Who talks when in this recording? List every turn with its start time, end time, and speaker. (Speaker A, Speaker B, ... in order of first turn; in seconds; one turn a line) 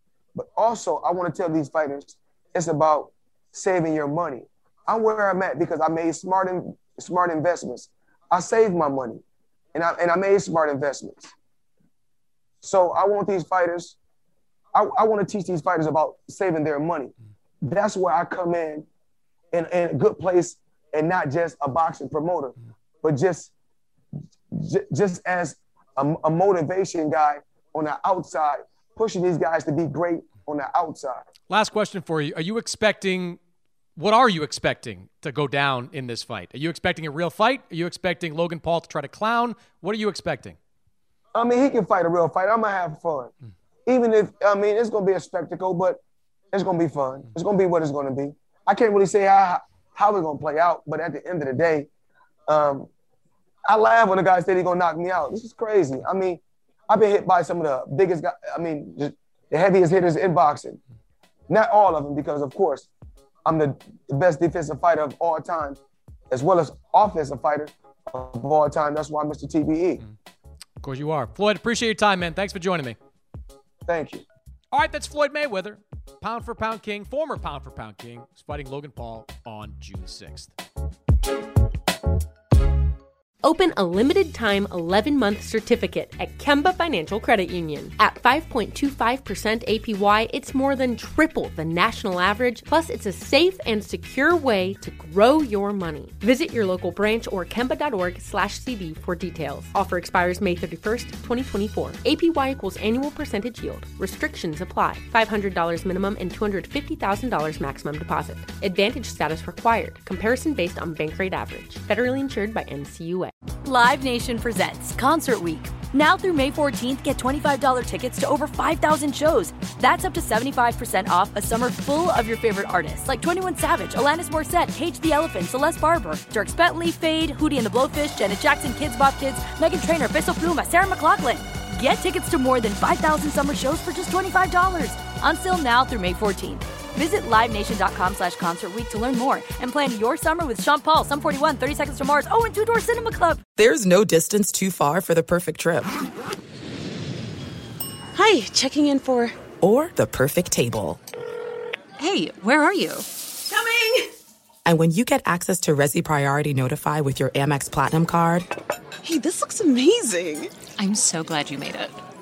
Speaker A: 0.3-9.2
Speaker A: 9.7-11.3
Speaker A: 12.6-13.9
Speaker A: 14.7-18.9
Speaker A: 19.5-23.5
Speaker A: 24.5-31.2
Speaker B: 31.5-33.4
Speaker B: 34.0-40.6
Speaker A: 41.3-43.3
Speaker A: 43.9-46.0
Speaker A: 46.5-51.9
Speaker A: 52.5-52.9
Speaker A: 53.7-60.8
Speaker A: 61.5-62.9
Speaker A: 63.4-65.8
Speaker A: 66.3-70.0
Speaker B: 70.8-73.0
Speaker A: 73.8-74.2
Speaker B: 74.7-80.5
Speaker C: 83.4-113.3
Speaker D: 113.6-143.4
Speaker E: 143.6-145.9
Speaker F: 148.1-149.3
Speaker E: 149.6-151.0
Speaker F: 152.0-154.0
Speaker E: 154.7-158.5
Speaker F: 159.0-162.0